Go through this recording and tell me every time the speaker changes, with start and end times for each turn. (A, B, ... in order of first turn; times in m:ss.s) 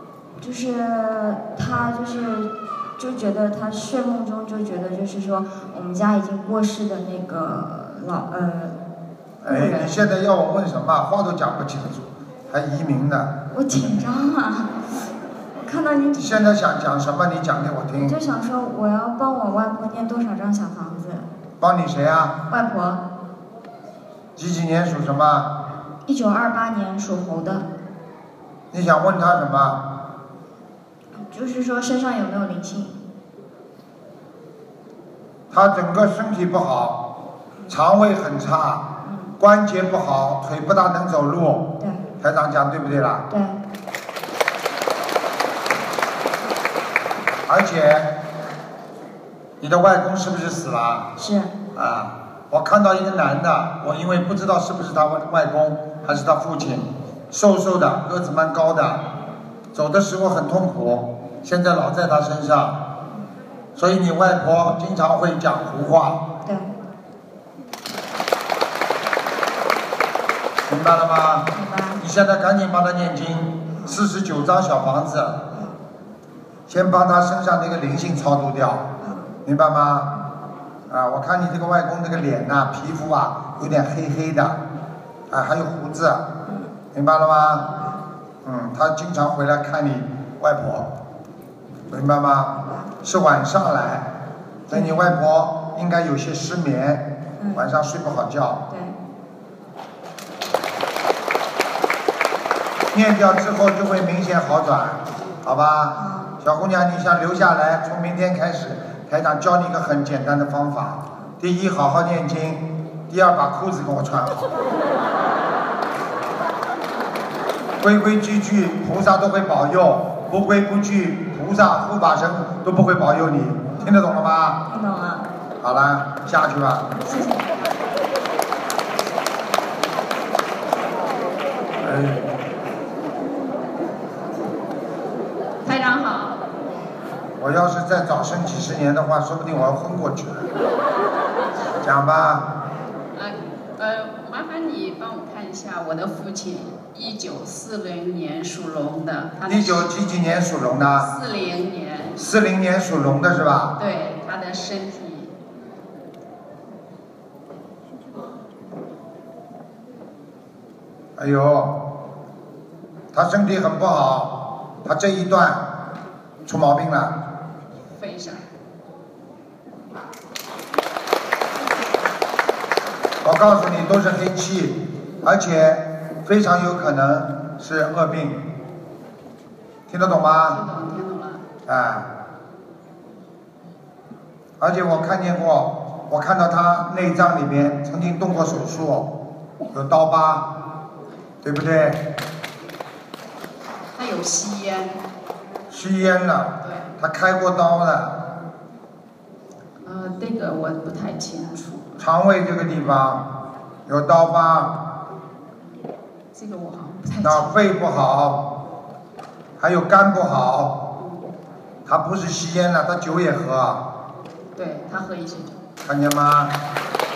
0:00.4-0:08.8 A
0:09.4-0:13.4 B
0:09.5-0:09.9 A
0:13.5-0:14.8 A
0:15.6-0:16.5 A
0:16.2-0:18.2 B
0:18.0-0:21.3 A
0:21.6-0:22.4 B
0:22.5-0:23.0 A
0:24.4-0:25.5 B
0:26.0-0:27.6 A
0:28.7-0:29.8 B
0:31.2-0:33.0 A
0:35.5-0:37.1 B
0:37.7-0:38.8 B
0:39.0-0:39.3 A
0:39.4-0:43.2 B
0:43.3-0:43.6 A
0:47.4-0:48.1 B
0:49.6-0:51.1 B
0:51.2-0:51.5 A
0:51.7-0:59.0 B
0:59.7-1:02.8 B
1:03.8-1:06.2 B
1:06.4-1:06.7 A
1:10.7-1:15.4 B
1:11.5-1:12.0 A
1:16.7-1:18.9 B
1:19.0-1:19.3 A
1:19.4-1:20.1 B
1:20.9-1:24.6 B
1:25.3-1:26.2 B
1:26.4-1:26.7 A
1:26.9-1:27.7 B
1:27.7-1:28.0 A
1:28.4-1:30.9 B
1:31.9-1:34.1 B
1:32.6-1:32.9 A
1:34.7-1:38.6 B
1:34.7-1:35.0 A
1:38.7-1:39.0 A
1:42.9-1:54.5 B
1:46.0-1:46.3 A
1:57.8-2:04.6 B
2:04.7-2:05.3 A
2:05.6-2:06.9 B
2:07.0-2:07.5 A
2:11.8-2:12.3 B
2:15.6-2:16.4 C
2:17.4-2:20.5 B
2:21.8-2:22.5 B
2:23.1-2:29.9 C
2:29.5-2:31.1 B
2:31.0-2:32.2 C
2:32.2-2:33.8 B
2:33.8-2:35.3 C
2:41.2-2:41.8 B
2:43.1-2:45.6 B
2:46.4-2:47.2 B
2:47.9-2:48.4 C
2:53.2-2:58.4 B
2:59.9-3:00.6 B
3:00.5-3:01.4 C
3:01.6-3:02.1 B
3:04.6-3:09.1 B
3:09.7-3:10.5 B
3:11.4-3:12.0 B
3:13.9-3:15.0 C
3:15.7-3:18.2 B
3:16.6-3:16.9 C
3:19.8-3:22.0 C
3:22.0-3:23.2 B
3:23.9-3:24.8 B
3:26.3-3:27.5 C
3:27.2-3:28.4 B
3:29.6-3:30.8 B
3:31.0-3:31.2 C
3:31.8-3:33.8 B
3:34.6-3:35.6 C
3:35.8-3:36.6 B